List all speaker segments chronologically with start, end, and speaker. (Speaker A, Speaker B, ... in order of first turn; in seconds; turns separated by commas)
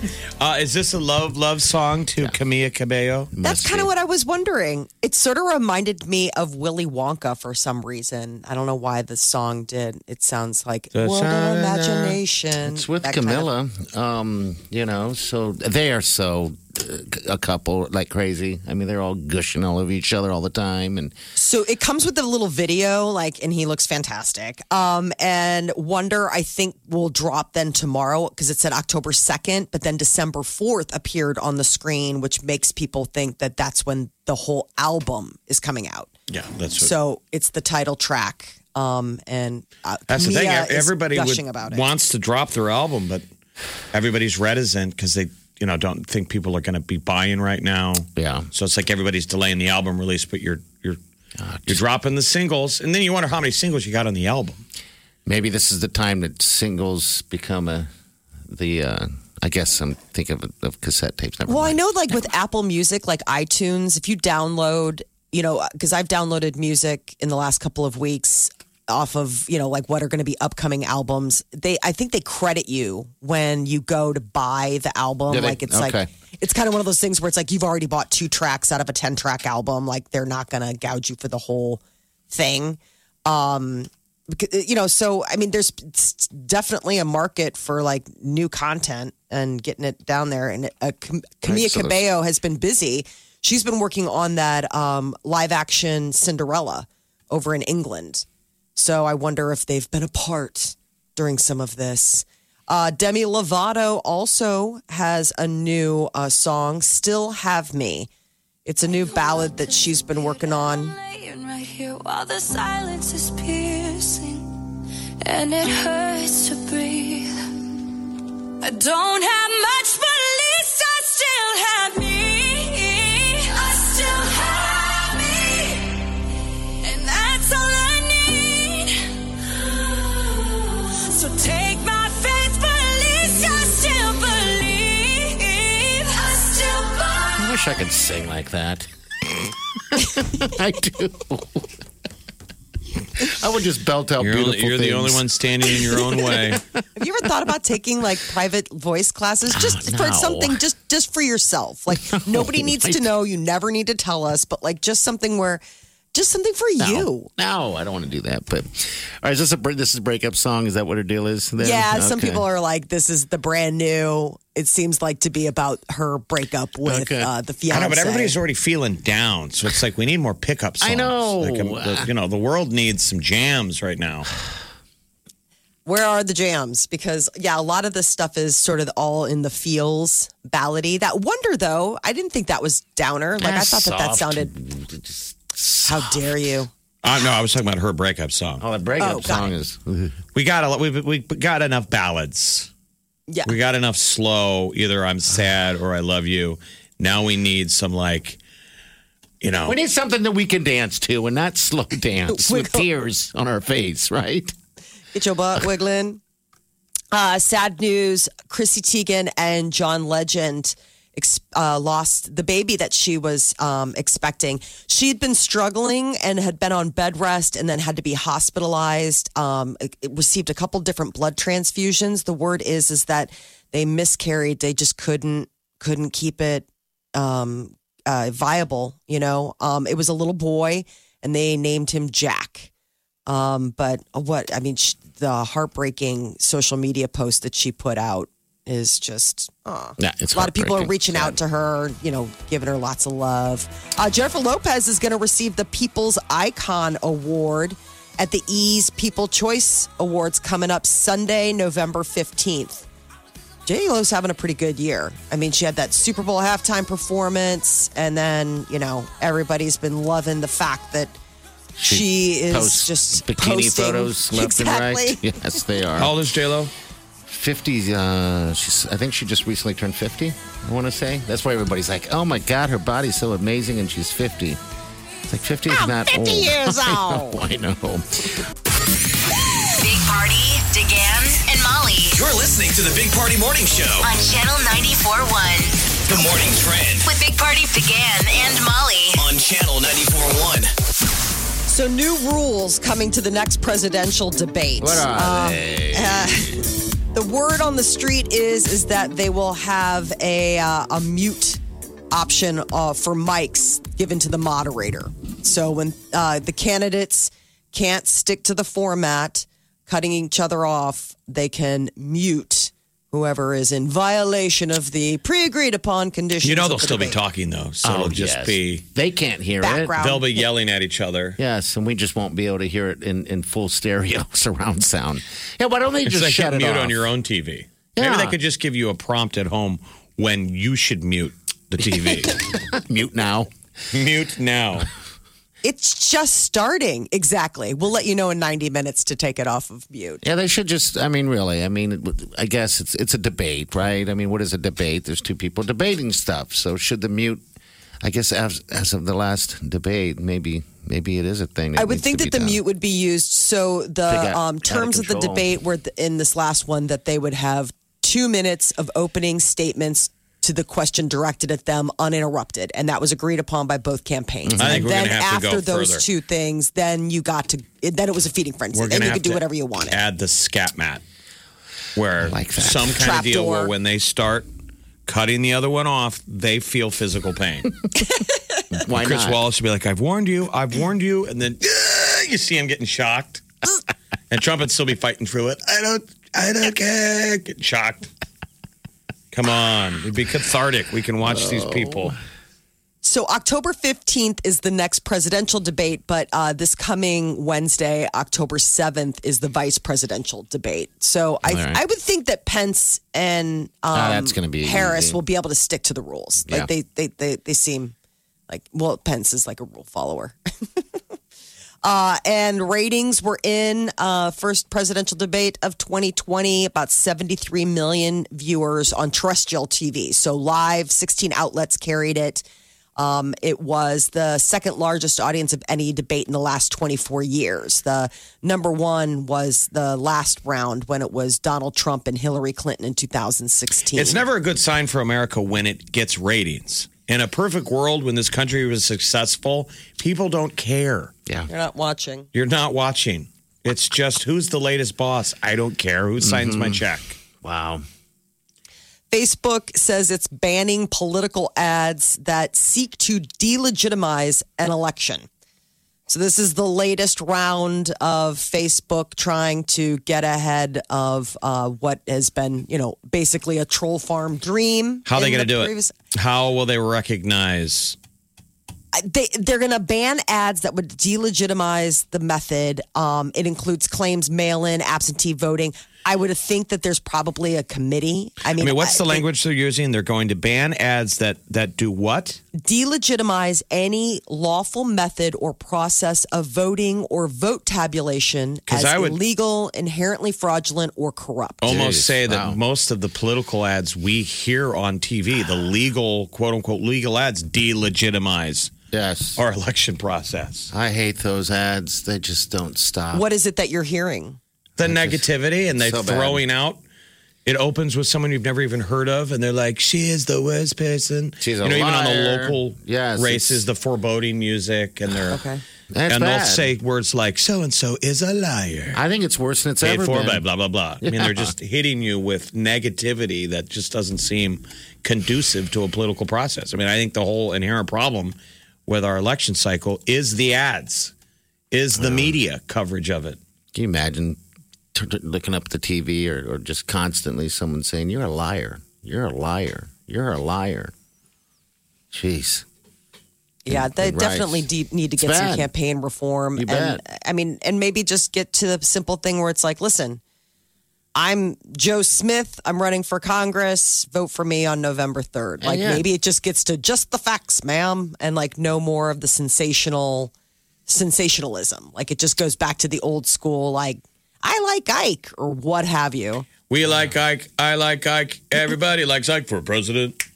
Speaker A: 0.4-3.3, Speaker B: 3.3-3.9, Speaker C: 3.4-13.5, Speaker A: 10.9-11.9, Speaker B: 11.5-12.1, Speaker B: 12.6-21.1, Speaker C: 21.4-36.1, Speaker A: 36.3-36.9, Speaker C: 36.8-41.8, Speaker A: 40.1-43.2, Speaker A: 43.9-51.0, Speaker B: 48.1-48.5, Speaker B: 51.4-51.8, Speaker A: 51.7-54.6, Speaker B: 55.2-57.9, Speaker B: 58.5-61.8, Speaker C: 61.5-98.2, Speaker B: 75.3-76.1, Speaker B: 91.4-92.0, Speaker C: 98.8-108.1, Speaker C: 108.7-110.9, Speaker D: 109.1-109.8, Speaker D: 110.6-114.5, Speaker D: 115.2-117.3, Speaker D: 118.6-125.8, Speaker D: 126.8-128.9, Speaker D: 131.1-136.9, Speaker B: 137.3-141.7, Speaker B: 143.2-146.6, Speaker A: 144.2-146.6, Speaker C: 146.9-155.6, Speaker B: 149.5-150.6, Speaker B: 151.9-153.1, Speaker C: 156.1-157.3, Speaker B: 156.8-162.4, Speaker C: 161.6-168.3, Speaker B: 166.8-167.3, Speaker A: 167.7-174.3, Speaker B: 170.8-172.1, Speaker C: 175.8-184.5, Speaker B: 183.4-186.3, Speaker C: 185.8-186.7, Speaker A: 187.0-188.6, Speaker B: 188.6-190.2, Speaker C: 189.0-189.5, Speaker A: 190.3-192.7, Speaker A: 193.4-198.4, Speaker A: 199.4-199.8, Speaker B: 199.7-204.5, Speaker C: 202.3-202.8, Speaker C: 205.1-206.2, Speaker C: 207.1-232.7, Speaker C: 233.3-252.8, Speaker B: 240.0-241.4, Speaker C: 253.7-261.1, Speaker B: 261.8-266.1, Speaker C: 261.8-265.2, Speaker A: 266.0-266.7, Speaker B: 267.3-274.6, Speaker B: 275.3-278.4, Speaker C: 275.7-277.4, Speaker E: 279.8-282.1, Speaker F: 282.1-284.1, Speaker E: 284.0-285.7, Speaker F: 286.1-287.1, Speaker E: 287.1-289.1, Speaker F: 289.2-290.7, Speaker C: 291.7-296.6, Speaker B: 294.8-296.6, Speaker C: 297.1-301.6, Speaker C: 302.1-317.2, Speaker A: 316.4-318.8, Speaker B: 317.8-320.0, Speaker C: 319.6-320.4, Speaker A: 320.0-321.4, Speaker B: 321.4-327.0, Speaker A: 326.0-332.4, Speaker B: 327.9-328.4, Speaker B: 331.8-333.5, Speaker A: 333.9-334.9, Speaker C: 335.6-340.2, Speaker B: 340.2-347.4, Speaker B: 348.0-352.6, Speaker C: 351.8-370.0, Speaker B: 354.1-355.6, Speaker B: 364.4-364.9, Speaker A: 364.6-366.0, Speaker A: 368.7-371.0, Speaker A: 371.9-374.5, Speaker B: 372.2-373.0, Speaker C: 373.0-373.7, Speaker A: 375.1-377.7, Speaker B: 378.7-379.4, Speaker A: 378.9-383.4, Speaker A: 384.3-388.1, Speaker A: 389.3-392.1, Speaker B: 391.2-392.2, Speaker C: 393.0-407.9, Speaker B: 401.4-401.8, Speaker B: 403.9-405.2, Speaker C: 408.5-410.8, Speaker C: 411.8-422.4, Speaker C: 423.0-434.2, Speaker A: 433.9-441.1, Speaker C: 441.5-442.3, Speaker A: 442.3-447.2, Speaker B: 446.2-446.8, Speaker B: 447.4-447.8, Speaker C: 449.1-455.3, Speaker C: 456.1-465.9, Speaker A: 465.1-467.9, Speaker C: 468.9-479.2, Speaker A: 478.6-482.4, Speaker C: 482.5-491.6, Speaker A: 488.7-489.2, Speaker A: 491.6-498.7, Speaker B: 491.6-492.6, Speaker B: 498.9-499.4, Speaker A: 499.4-500.7, Speaker B: 500.7-503.2, Speaker C: 503.1-504.4, Speaker A: 504.8-506.8, Speaker B: 504.8-506.4, Speaker A: 507.4-515.4, Speaker B: 511.4-513.6, Speaker C: 515.3-515.6, Speaker B: 515.9-516.7, Speaker A: 516.1-519.0, Speaker B: 518.9-520.4, Speaker A: 519.8-528.3, Speaker B: 521.0-521.5, Speaker A: 528.9-531.1, Speaker A: 531.7-533.4, Speaker B: 531.9-532.4, Speaker B: 533.7-534.4, Speaker B: 534.9-540.9, Speaker B: 542.1-542.6, Speaker C: 543.6-550.2, Speaker B: 543.7-545.7, Speaker B: 546.6-547.0, Speaker C: 551.1-560.3, Speaker B: 555.6-556.0, Speaker C: 560.9-566.5, Speaker A: 566.7-570.2